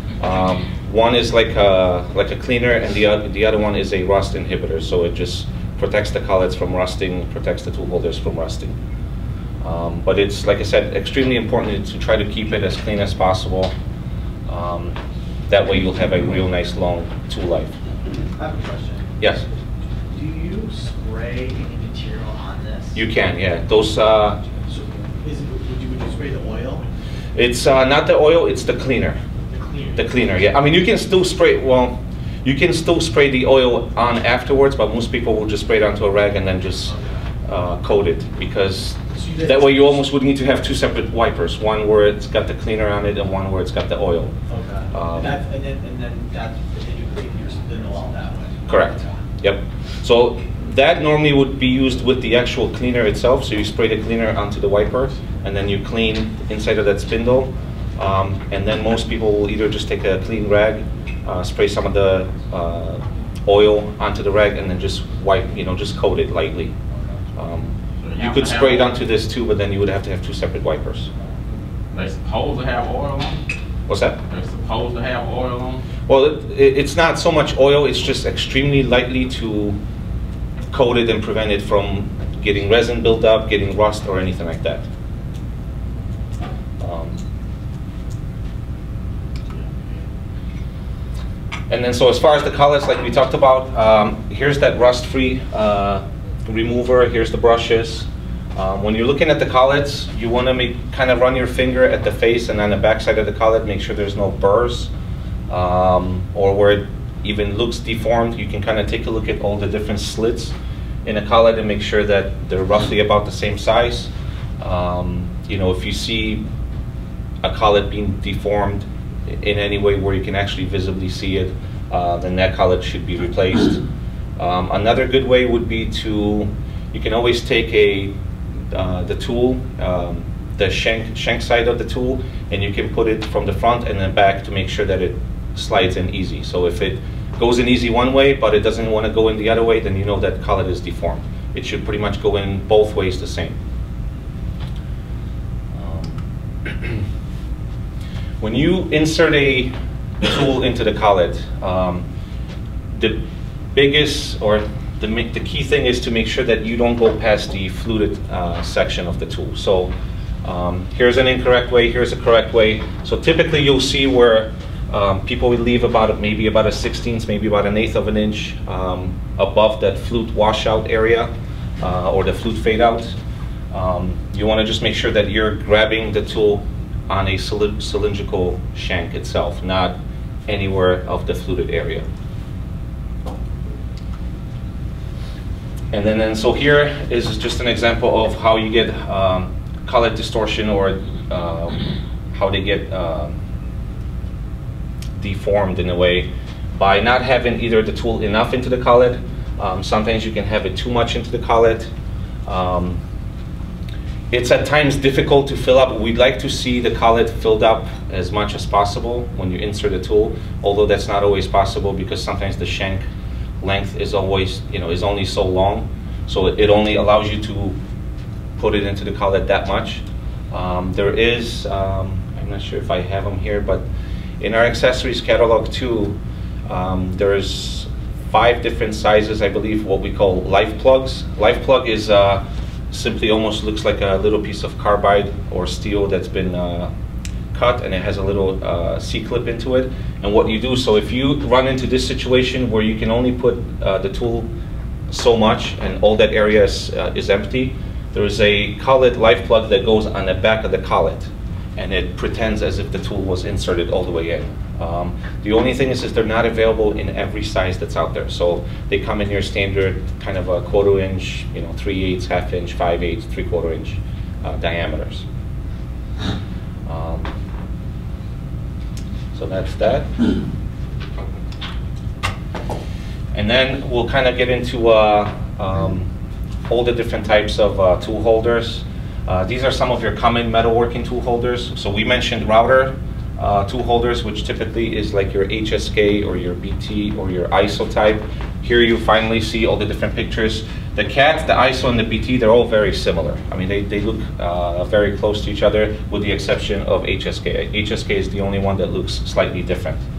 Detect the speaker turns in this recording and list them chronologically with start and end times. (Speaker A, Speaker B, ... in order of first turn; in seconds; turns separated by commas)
Speaker A: 0.2-8.7, Speaker A: 9.6-13.7, Speaker A: 14.5-14.9, Speaker A: 15.5-17.8, Speaker B: 18.1-19.1, Speaker A: 19.2-19.4, Speaker B: 20.1-23.0, Speaker A: 22.9-24.4, Speaker B: 24.7-26.8, Speaker A: 27.3-29.2, Speaker B: 29.5-30.0, Speaker A: 29.9-36.9, Speaker B: 36.9-37.2, Speaker A: 37.4-44.3, Speaker B: 39.1-39.7, Speaker B: 44.5-49.2, Speaker A: 44.9-45.3, Speaker A: 48.7-66.7, Speaker A: 67.4-71.1, Speaker C: 68.0-68.8, Speaker C: 71.9-73.4, Speaker A: 73.9-74.2, Speaker C: 74.3-75.8, Speaker A: 76.1-79.8, Speaker A: 80.7-84.9, Speaker A: 86.8-87.2, Speaker A: 91.7-104.9, Speaker A: 105.5-110.5, Speaker A: 111.0-116.4, Speaker A: 117.4-123.8, Speaker A: 124.4-128.1, Speaker A: 128.7-143.6, Speaker A: 145.7-147.0, Speaker A: 148.4-149.7, Speaker A: 150.2-152.0, Speaker A: 152.9-159.9, Speaker A: 160.4-173.1, Speaker A: 173.7-182.0, Speaker A: 185.9-193.4, Speaker A: 195.2-201.9, Speaker A: 202.5-203.0, Speaker A: 204.3-213.0, Speaker A: 213.6-217.8, Speaker A: 218.6-223.8, Speaker A: 224.4-236.9, Speaker A: 237.5-244.5, Speaker A: 245.1-265.2, Speaker A: 266.9-267.3, Speaker A: 269.3-270.1, Speaker A: 273.3-276.1, Speaker A: 276.7-300.0